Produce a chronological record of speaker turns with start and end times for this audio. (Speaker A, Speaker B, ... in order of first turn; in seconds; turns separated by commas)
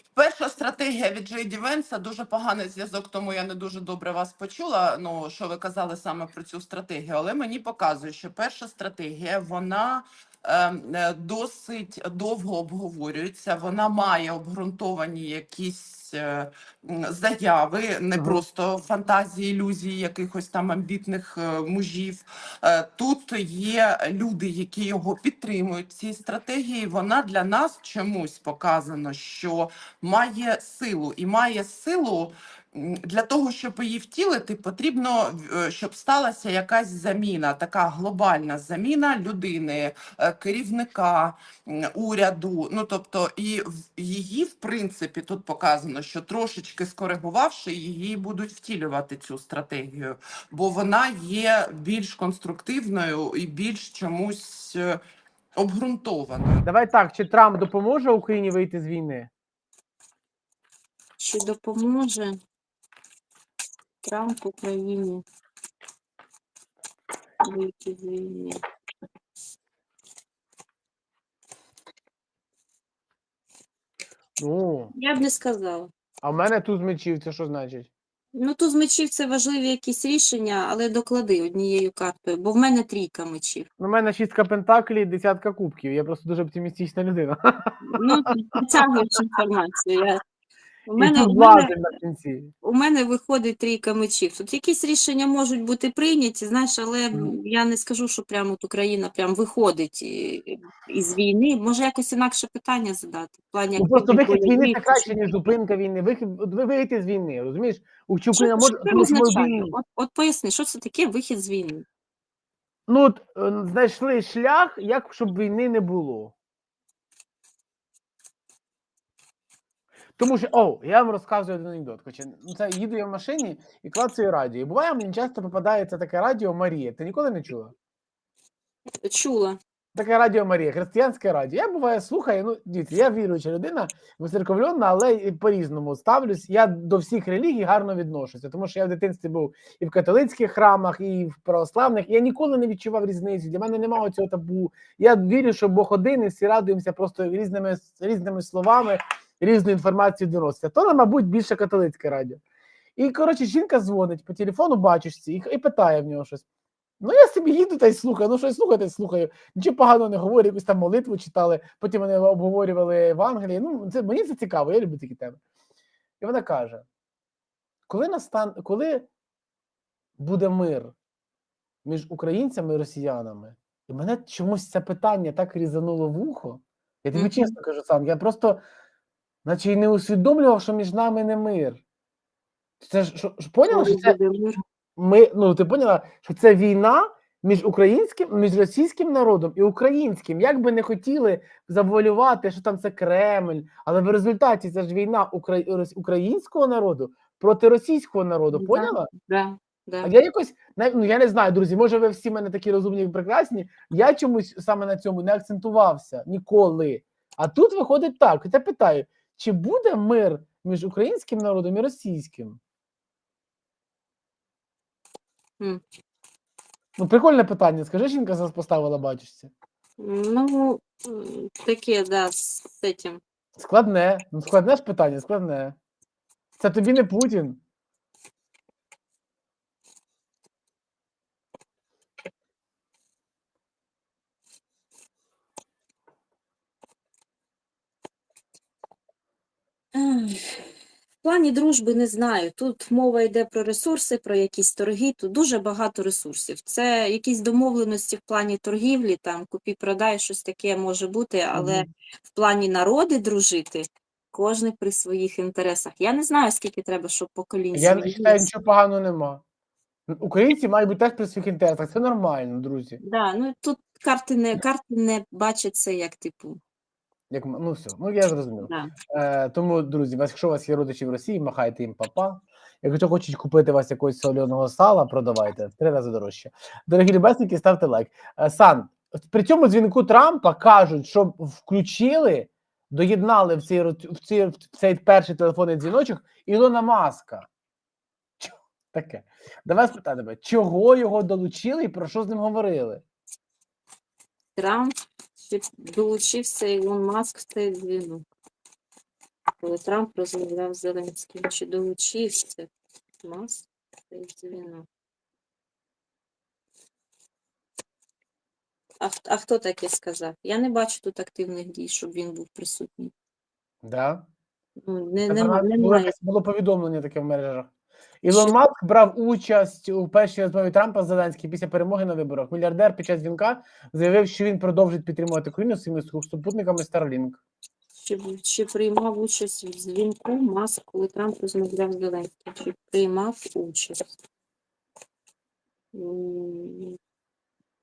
Speaker A: 0.1-55.0, Speaker A: 55.5-56.6, Speaker B: 56.6-59.3, Speaker C: 61.2-62.4, Speaker C: 64.0-65.2, Speaker C: 67.4-68.6, Speaker B: 74.4-74.9, Speaker C: 74.9-75.9, Speaker B: 76.2-77.9, Speaker C: 78.3-83.7, Speaker B: 83.8-88.7, Speaker C: 87.9-90.2, Speaker C: 90.9-91.7, Speaker B: 91.0-92.5, Speaker C: 92.6-105.1, Speaker B: 103.8-109.8, Speaker C: 108.3-111.8, Speaker B: 112.9-116.3, Speaker B: 120.2-127.7, Speaker C: 129.0-129.6, Speaker B: 129.9-152.4, Speaker B: 153.0-156.4, Speaker B: 157.0-165.4, Speaker B: 166.2-166.8, Speaker B: 167.9-169.1, Speaker B: 170.2-170.9, Speaker B: 171.8-178.6, Speaker C: 177.1-177.5, Speaker B: 179.4-181.8, Speaker B: 182.8-184.2, Speaker C: 183.7-184.6, Speaker B: 184.9-199.1, Speaker C: 198.5-200.1, Speaker B: 200.0-212.6, Speaker B: 217.0-219.5, Speaker C: 220.0-223.2, Speaker B: 223.6-225.8, Speaker B: 226.6-227.6, Speaker C: 239.9-240.6, Speaker C: 241.2-258.4, Speaker B: 251.5-251.9, Speaker B: 257.7-259.4, Speaker B: 260.1-263.0, Speaker C: 263.0-266.6, Speaker B: 267.3-287.5, Speaker C: 268.6-268.9, Speaker B: 288.4-293.0, Speaker C: 294.6-298.2, Speaker C: 299.6-302.7, Speaker C: 303.2-304.9, Speaker C: 309.0-313.1, Speaker B: 313.8-314.2, Speaker C: 314.9-316.1, Speaker B: 315.3-317.7, Speaker B: 318.2-327.4, Speaker C: 328.0-334.1, Speaker C: 335.9-337.0